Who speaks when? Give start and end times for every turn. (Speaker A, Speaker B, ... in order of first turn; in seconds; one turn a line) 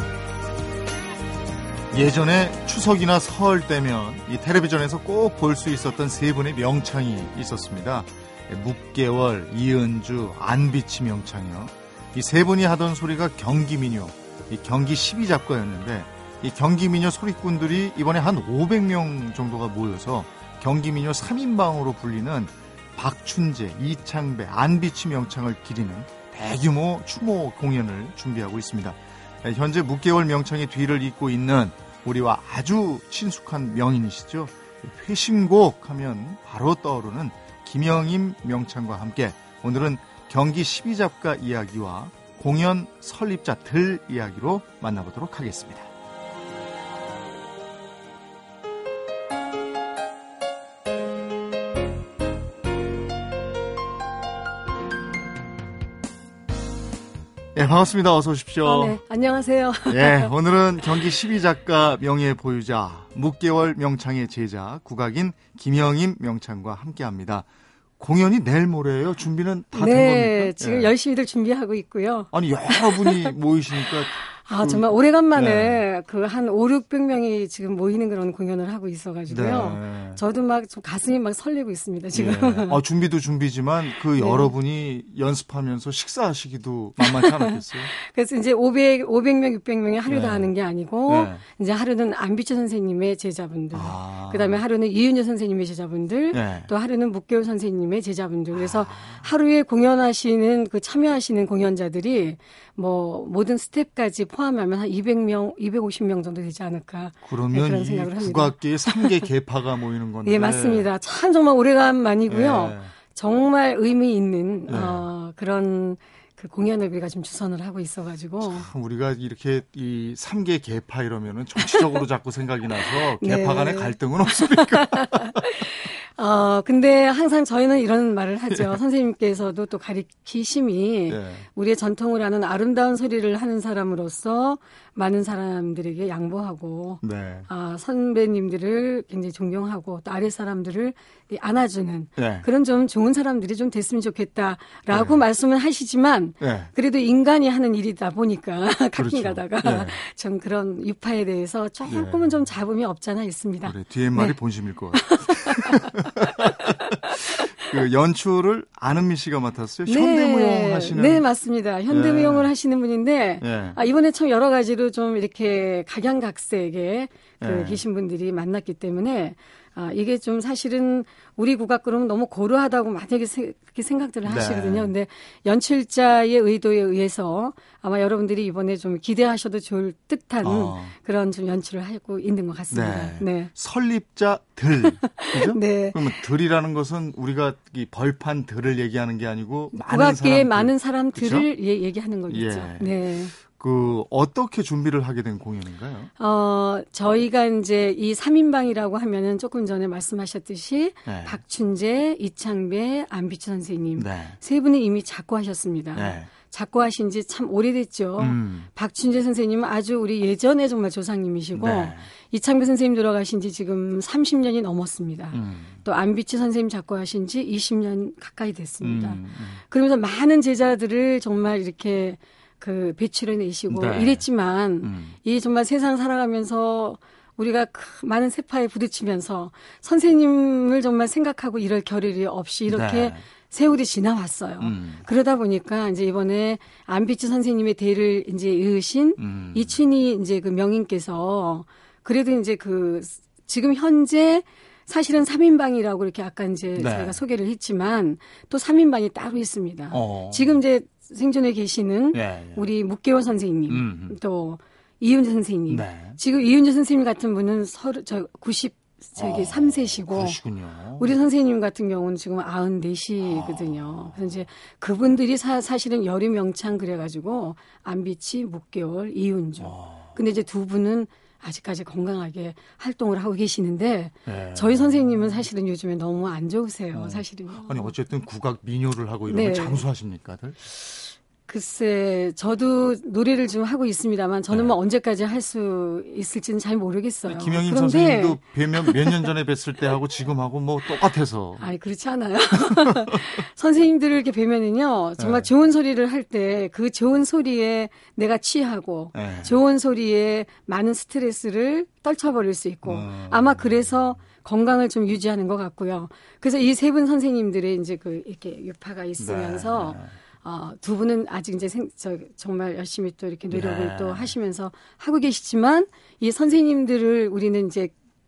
Speaker A: 1.9-45.9
Speaker A: 57.5-59.0
Speaker B: 58.6-60.3
Speaker A: 59.9-67.5
Speaker A: 68.0-70.9
Speaker B: 69.8-73.3
Speaker A: 72.3-75.8
Speaker B: 73.9-82.8
Speaker A: 79.3-80.2
Speaker A: 82.1-87.9
Speaker B: 84.2-84.5
Speaker B: 87.0-109.2
Speaker A: 90.1-90.5
Speaker A: 91.1-91.4
Speaker A: 93.7-94.6
Speaker A: 96.3-96.7
Speaker A: 98.5-99.3
Speaker A: 107.2-110.9
Speaker B: 110.2-118.7
Speaker A: 112.3-112.9
Speaker A: 114.7-115.1
Speaker A: 118.4-125.5
Speaker B: 123.2-154.3
Speaker A: 131.1-131.5
Speaker A: 137.0-137.5
Speaker A: 142.2-142.5
Speaker A: 144.9-145.2
Speaker A: 146.4-146.7
Speaker A: 149.0-150.0
Speaker A: 151.9-152.3
Speaker A: 153.7-161.2
Speaker B: 154.9-156.3
Speaker B: 157.0-157.7
Speaker B: 159.9-183.5
Speaker A: 161.9-162.5
Speaker A: 163.4-163.8
Speaker A: 167.4-167.8
Speaker A: 174.2-174.9
Speaker A: 180.4-180.9
Speaker A: 182.7-191.5
Speaker B: 185.0-186.2
Speaker B: 189.7-193.3
Speaker A: 192.3-196.1
Speaker B: 196.2-260.4
Speaker A: 201.1-201.4
Speaker A: 204.0-204.4
Speaker A: 205.9-206.3
Speaker A: 208.2-208.7
Speaker A: 211.6-212.1
Speaker A: 215.3-215.8
Speaker A: 218.8-219.6
Speaker A: 223.7-224.2
Speaker A: 224.8-225.2
Speaker A: 232.7-233.2
Speaker A: 234.6-235.0
Speaker A: 239.2-239.8
Speaker A: 246.8-247.2
Speaker A: 249.9-250.6
Speaker A: 252.1-252.7
Speaker A: 253.7-254.2
Speaker A: 255.7-256.2
Speaker A: 259.2-261.2
Speaker B: 261.0-277.9
Speaker A: 263.2-264.5
Speaker A: 269.6-270.1
Speaker A: 274.3-275.4
Speaker A: 276.9-280.6
Speaker B: 279.3-279.8
Speaker B: 280.9-289.1
Speaker A: 287.3-291.7
Speaker B: 291.6-317.9
Speaker A: 292.7-293.2
Speaker A: 295.2-295.5
Speaker A: 299.1-299.6
Speaker A: 302.9-304.0
Speaker A: 309.2-310.1
Speaker A: 313.5-314.3